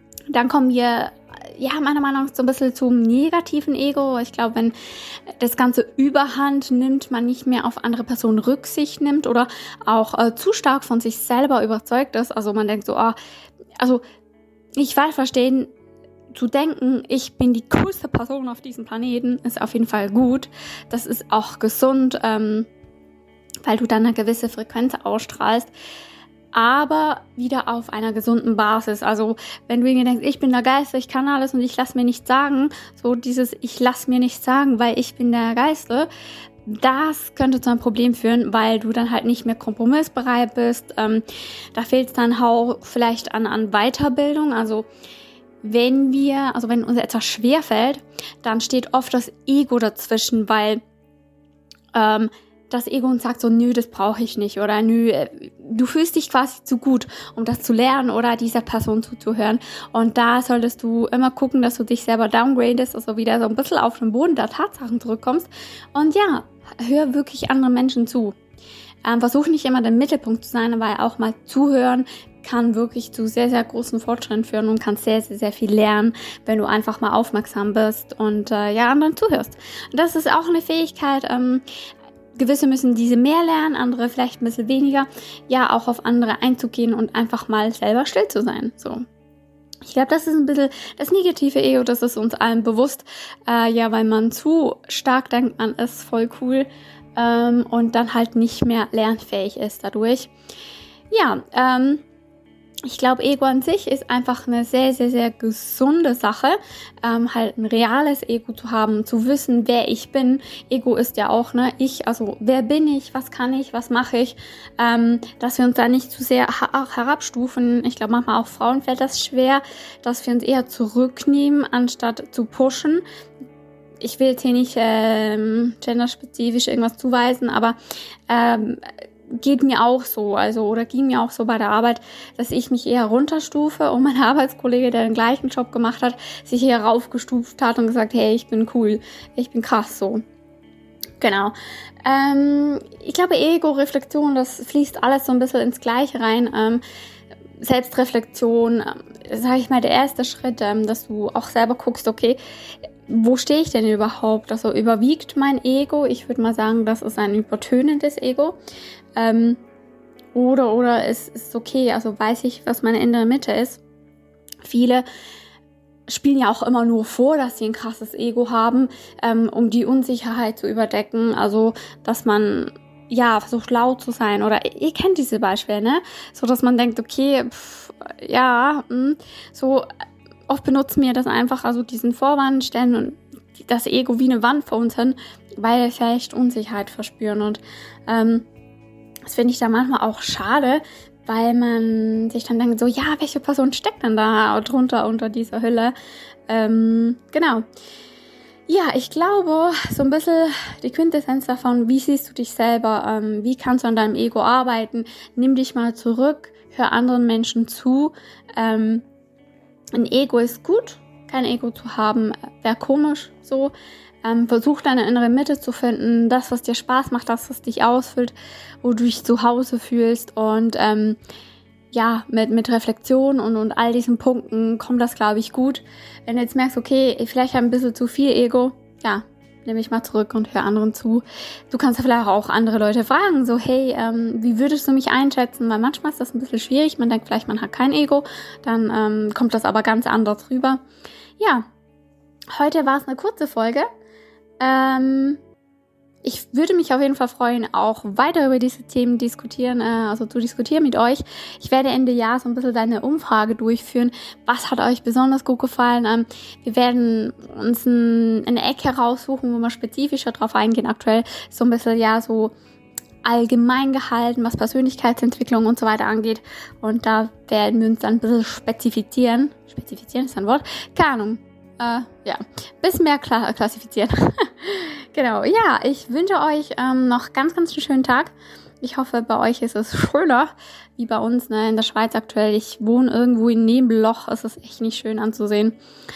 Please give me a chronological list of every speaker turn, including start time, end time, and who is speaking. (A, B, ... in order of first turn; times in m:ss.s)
0:00.3-0:04.7 A
0:05.4-0:13.2 A
0:14.8-0:15.7 A
0:16.3-0:22.7 A
0:23.6-0:25.7 A
0:26.5-0:36.1 A
0:36.6-0:44.9 A
0:45.6-0:50.8 A
0:51.9-1:08.3 A
1:09.0-1:21.6 A
1:22.4-1:29.0 A
1:29.8-1:40.3 A
1:41.1-1:42.0 A
1:42.8-2:03.0 A
2:04.0-2:07.8 A
2:08.3-2:20.2 A
2:21.2-2:21.5 A
2:22.0-2:26.8 A
2:27.6-2:32.4 A
2:33.1-2:38.6 A
2:39.2-2:39.6 A
2:40.3-2:43.8 A
2:44.6-2:45.0 A
2:46.1-2:59.9 A
3:00.5-3:08.5 A
3:09.2-3:15.9 A
3:16.5-3:17.6 A
3:18.7-3:29.0 A
3:29.9-3:41.2 A
3:41.9-4:00.8 A
4:01.4-4:01.6 A
4:02.5-4:03.9 A
4:04.6-4:05.4 A
4:06.2-4:22.5 A
4:23.2-4:45.8 A